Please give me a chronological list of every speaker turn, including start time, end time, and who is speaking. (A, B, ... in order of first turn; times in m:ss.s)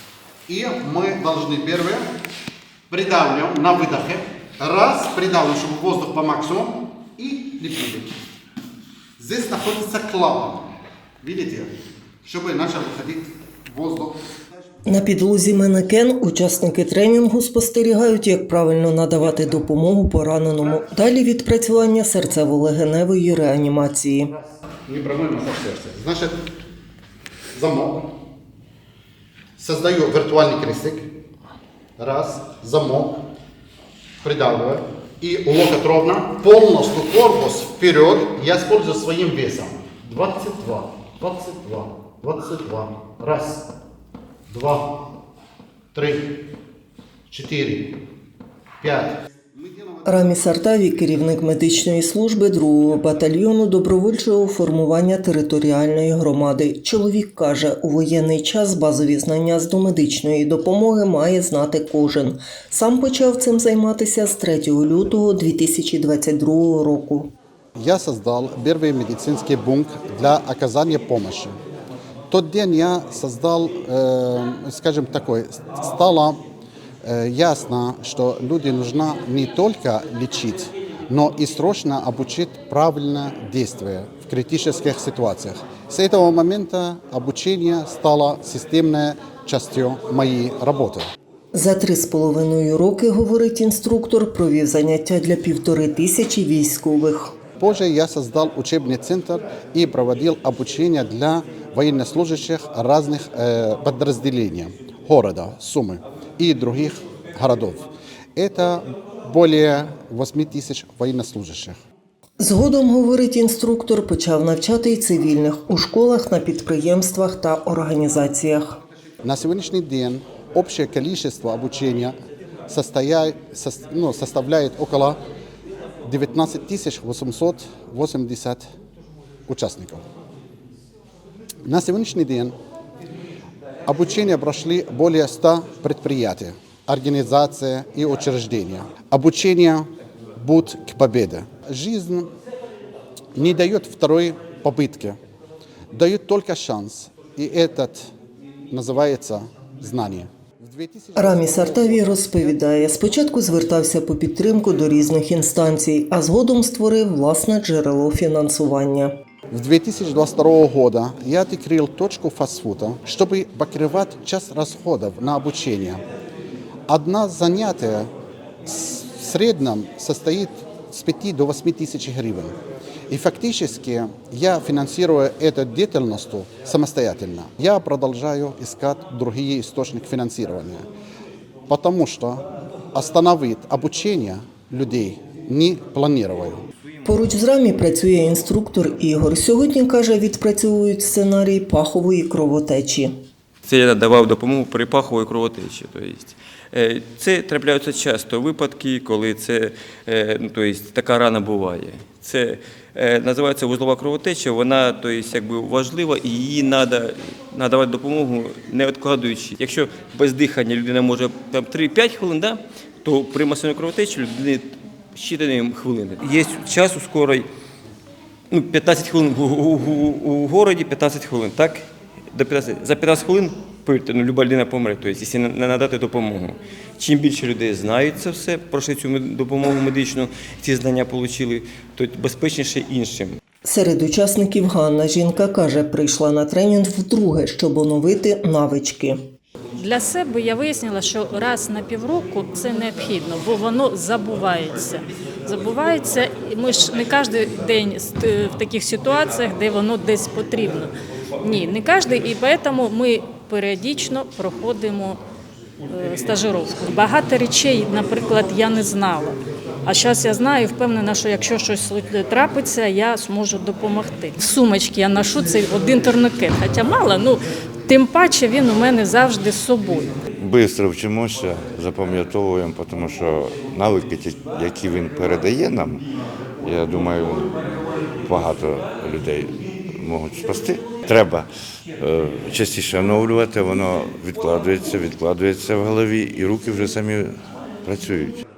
0:00.5-0:02.0 A
0:02.9-0:08.1 A
0:09.2-0:10.7 A
0:11.2-0:11.7 A
0:12.2-0:14.2 A
0:14.8-0:24.3 B
0:24.3-0:26.4 A
0:27.5-0:28.1 A
0:29.6-0:31.1 A
0:32.0-0:33.2 A
0:34.2-0:43.7 A
0:44.5-0:44.9 A
0:45.9-0:46.3 A
0:47.3-0:47.9 A
0:48.8-0:50.4 A
0:50.0-1:07.3 B
1:07.8-1:11.5 A
1:12.3-1:16.4 A
1:17.0-1:31.0 A
1:31.5-1:37.3 B
1:37.6-1:51.8 A
1:52.4-1:58.8 B
1:59.2-2:02.1 A
2:02.7-2:05.2 A
2:06.0-2:08.6 A
2:09.5-2:10.0 A
2:11.6-2:12.5 A
2:13.8-2:22.3 A
2:23.4-2:25.2 A
2:25.9-2:28.1 A
2:28.7-2:33.1 A
2:31.2-2:39.1 B
2:39.5-2:46.0 A
2:46.9-2:48.1 A
2:48.6-2:52.5 A
2:53.1-3:00.8 A
3:01.7-3:06.6 A
3:07.0-3:13.1 B
3:13.6-3:37.5 C
3:38.5-3:53.4 C
3:53.6-3:59.2 B
3:59.8-4:15.2 D
4:15.9-4:30.1 D
4:30.4-4:36.0 E
4:36.6-4:37.5 E
4:38.2-4:41.5 E
4:42.0-4:47.3 E
4:47.8-4:48.4 E